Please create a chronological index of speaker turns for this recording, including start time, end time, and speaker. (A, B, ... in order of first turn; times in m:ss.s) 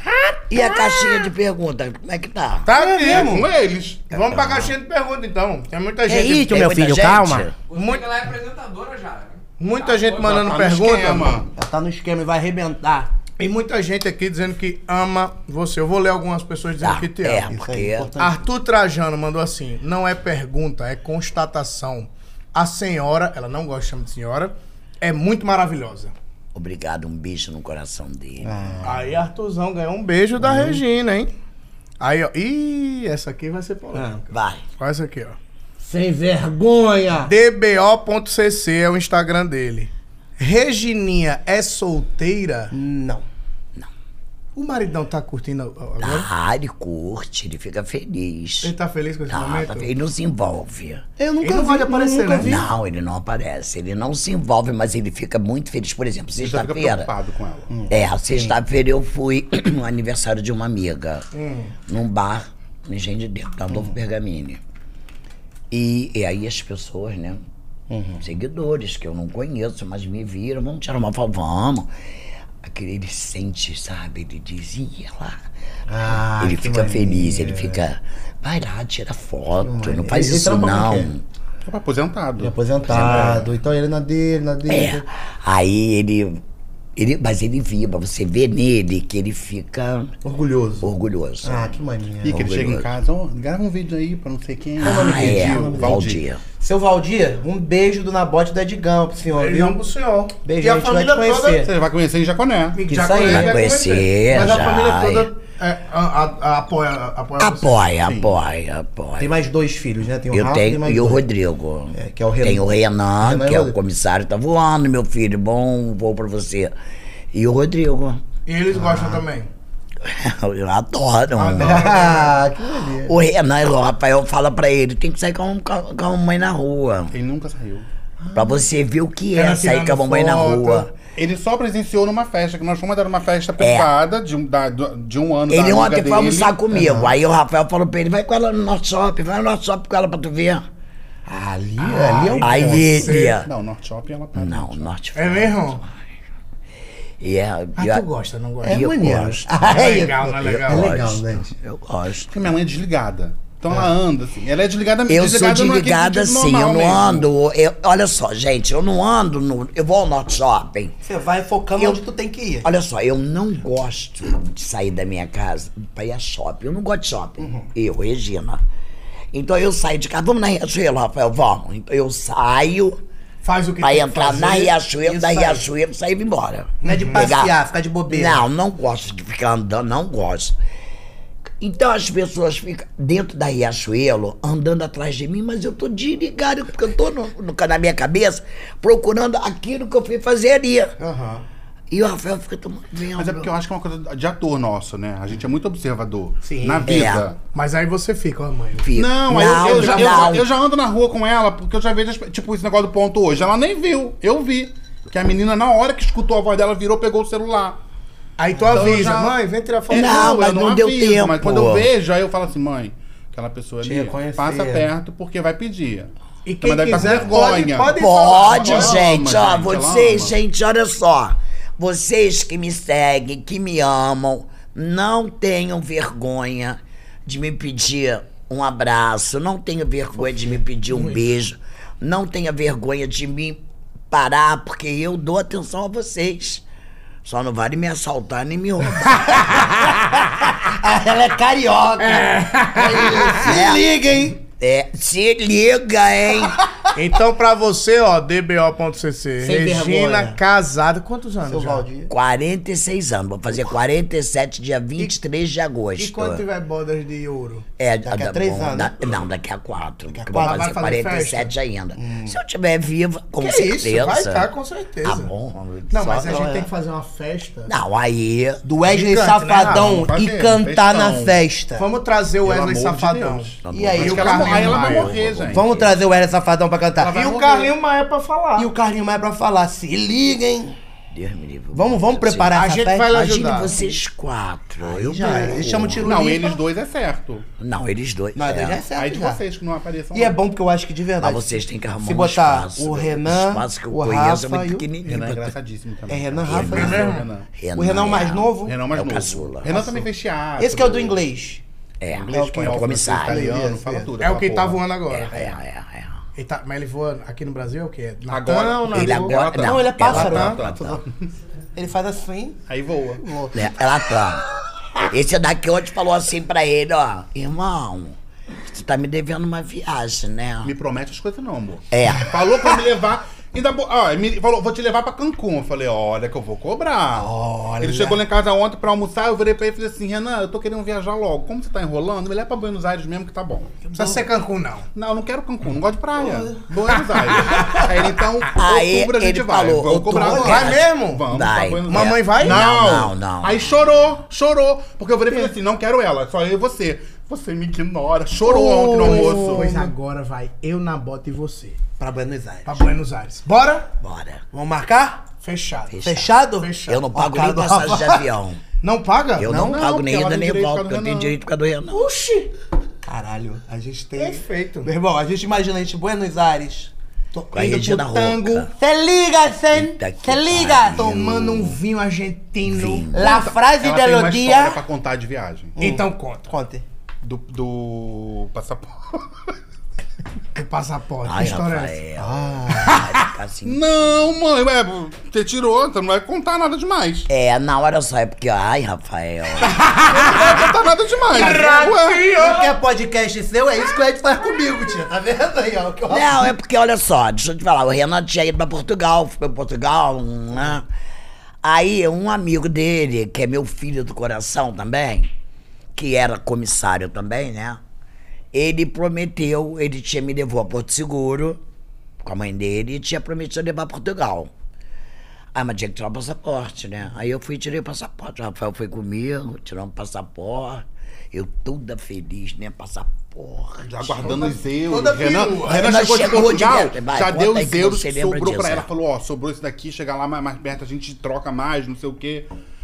0:00.5-0:02.7 A
0:02.6-0:03.5 B
0:02.7-0:03.5 C
0:03.0-0:04.2 D
0:04.1-0:06.5 B
0:04.2-0:04.7 A
0:06.1-0:07.5 C
0:06.3-0:07.5 A
0:07.7-0:10.4 E
0:07.7-0:08.1 B
0:09.6-0:11.4 B
0:10.2-0:11.5 D
0:11.5-0:13.1 C
0:13.4-0:17.5 B
0:16.8-0:18.1 A
0:17.5-0:18.5 C
0:18.2-0:26.1 B
0:26.5-0:28.5 A
0:28.4-0:29.1 C
0:28.8-0:31.3 B
0:30.4-0:30.8 C
0:32.0-0:34.3 B
0:33.9-0:34.2 C
0:34.3-0:34.6 A
0:34.8-0:35.4 B
0:35.8-0:37.3 C
0:37.2-0:42.7 B
0:42.7-0:43.2 C
0:44.5-0:46.3 B
0:46.0-0:48.7 A
0:48.6-0:49.9 B
0:49.3-0:51.0 A
0:51.2-0:52.6 C
0:51.4-0:52.6 B
0:52.4-0:57.1 A
0:56.4-0:57.7 D
0:57.9-1:01.3 A
1:01.3-1:01.7 B
1:01.9-1:04.6 A
1:05.7-1:07.4 A
1:07.9-1:08.2 C
1:08.2-1:11.9 A
1:12.6-1:15.4 A
1:15.9-1:17.8 C
1:16.4-1:21.2 A
1:19.6-1:21.1 C
1:21.6-1:23.5 D
1:22.4-1:25.0 C
1:22.9-1:23.4 A
1:24.7-1:26.4 A
1:27.0-1:30.1 A
1:30.2-1:30.9 C
1:30.8-1:31.7 A
1:31.4-1:32.4 C
1:32.2-1:36.2 D
1:32.2-1:32.9 A
1:34.8-1:36.1 C
1:34.8-1:36.4 A
1:36.6-1:39.8 C
1:39.3-1:41.7 B
1:40.4-1:41.7 C
1:41.6-1:42.8 D
1:42.7-1:47.8 B
1:42.9-1:43.7 C
1:43.2-1:45.3 A
1:47.4-1:49.3 A
1:48.0-1:48.3 D
1:49.2-1:51.2 C
1:50.3-1:56.7 A
1:51.9-1:52.7 C
1:53.2-1:53.8 C
1:57.3-1:58.2 A
1:58.4-1:59.5 B
1:58.8-1:59.2 C
2:00.0-2:02.0 A
2:01.4-2:02.4 B
2:01.6-2:03.1 C
2:03.0-2:07.1 A
2:07.1-2:07.8 D
2:08.3-2:10.9 A
2:09.3-2:10.9 B
2:11.1-2:16.5 D
2:13.6-2:13.9 A
2:15.5-2:20.6 A
2:16.7-2:17.1 C
2:21.2-2:22.9 C
2:21.8-2:23.4 B
2:22.4-2:23.5 A
2:22.8-2:24.9 D
2:24.3-2:25.9 A
2:25.1-2:25.8 B
2:27.2-2:28.0 A
2:27.8-2:28.9 B
2:28.6-2:31.5 C
2:28.7-2:32.5 A
2:29.5-2:31.0 B
2:32.3-2:37.3 D
2:35.0-2:40.9 A
2:41.0-2:42.7 C
2:41.8-2:42.0 A
2:42.6-2:48.6 A
2:47.4-2:47.7 C
2:49.3-2:53.0 A
2:53.4-2:54.7 B
2:53.8-2:57.5 A
2:55.0-2:55.7 C
2:56.8-2:58.4 C
2:56.8-2:57.3 B
2:58.1-3:00.6 A
3:01.6-3:10.9 A
3:11.0-3:11.4 C
3:11.9-3:13.5 A
3:13.2-3:17.4 D
3:16.4-3:17.1 C
3:16.8-3:17.3 A
3:17.5-3:20.4 B
3:18.8-3:20.5 A
3:18.9-3:27.8 D
3:28.4-3:30.4 B
3:28.6-3:28.8 C
3:28.7-3:29.4 D
3:29.9-3:36.1 D
3:29.9-3:31.9 A
3:33.8-3:34.9 C
3:36.4-3:39.0 B
3:36.6-3:40.3 D
3:37.9-3:56.6 A
3:57.2-3:59.6 A
3:59.4-4:04.4 C
4:02.0-4:03.5 B
4:03.2-4:06.6 A
4:06.9-4:11.9 B
4:09.4-4:10.4 C
4:11.4-4:12.1 C
4:12.1-4:16.4 A
4:16.0-4:17.6 B
4:17.8-4:24.5 A
4:18.0-4:19.0 C
4:20.1-4:20.8 C
4:20.3-4:21.5 B
4:22.0-4:22.4 C
4:23.4-4:25.3 B
4:25.0-4:26.6 A
4:25.9-4:27.7 B
4:26.1-4:26.7 C
4:27.7-4:28.6 A
4:28.6-4:31.8 C
4:28.8-4:30.0 B
4:29.7-4:31.4 D
4:31.8-4:35.1 B
4:32.4-4:35.6 D
4:33.6-4:36.0 A
4:33.7-4:37.3 C
4:37.0-4:37.7 D
4:37.0-4:38.7 B
4:38.6-4:40.8 C
4:41.1-4:42.5 A
4:41.7-4:43.2 C
4:42.5-4:43.8 B
4:43.1-4:46.2 A
4:44.8-4:46.6 C
4:46.0-4:47.5 D
4:47.6-4:48.8 A
4:48.3-4:49.4 C
4:48.9-4:50.4 D
4:50.1-4:54.9 C
4:51.2-4:55.5 A
4:55.0-4:57.5 D
4:56.1-4:57.2 C
4:56.4-4:59.8 A
4:56.7-4:57.3 B
4:57.7-4:58.8 C
4:58.6-5:01.2 D
4:59.7-5:00.0 C
5:00.6-5:01.6 C
5:02.0-5:03.5 A
5:02.1-5:04.8 D
5:02.3-5:04.1 C
5:04.2-5:05.6 B
5:05.1-5:06.2 A
5:06.4-5:09.4 B
5:08.3-5:10.9 D
5:08.9-5:11.0 A
5:09.5-5:11.0 C
5:11.7-5:12.6 C
5:12.7-5:13.2 D
5:13.2-5:13.7 C
5:13.5-5:14.4 A
5:15.1-5:20.7 A
5:20.6-5:33.8 D
5:21.9-5:22.3 A
5:27.1-5:28.2 C
5:33.8-5:34.2 C
5:33.9-5:34.9 B
5:34.9-5:49.7 D
5:36.2-5:36.7 C
5:37.4-5:37.8 C
5:37.4-5:37.9 B
5:38.5-5:44.2 A
5:40.1-5:40.6 C
5:40.2-5:41.2 B
5:41.9-5:42.6 B
5:48.4-5:49.9 C
5:48.8-5:51.8 B
5:52.0-5:52.9 C
5:52.6-5:53.9 B
5:54.0-5:54.4 A
5:54.5-5:55.2 C
5:55.4-5:57.1 B
5:55.9-5:58.6 A
5:56.0-5:58.2 C
5:58.8-5:59.6 B
5:59.4-6:02.1 A
5:59.4-5:59.8 C
5:59.5-6:01.3 D
6:02.0-6:02.5 B
6:03.0-6:11.1 C
6:04.2-6:04.9 B
6:07.5-6:08.7 A
6:09.7-6:11.8 A
6:10.9-6:13.3 B
6:12.6-6:13.2 A
6:13.1-6:14.8 C
6:13.2-6:15.8 D
6:15.8-6:16.8 C
6:15.8-6:16.5 B
6:17.2-6:19.5 D
6:20.5-6:22.0 B
6:21.2-6:24.3 A
6:22.2-6:23.0 C
6:23.6-6:27.3 D
6:27.3-6:29.8 A
6:29.6-6:30.6 B
6:30.0-6:32.3 D
6:31.3-6:36.5 C
6:31.3-6:32.7 B
6:36.1-6:40.9 A
6:41.6-6:45.3 A
6:46.0-6:47.8 A
6:48.5-6:51.6 A
6:52.2-6:54.5 A
6:55.5-7:04.5 A
7:03.8-7:12.5 D
7:04.2-7:06.2 B
7:05.6-7:08.9 A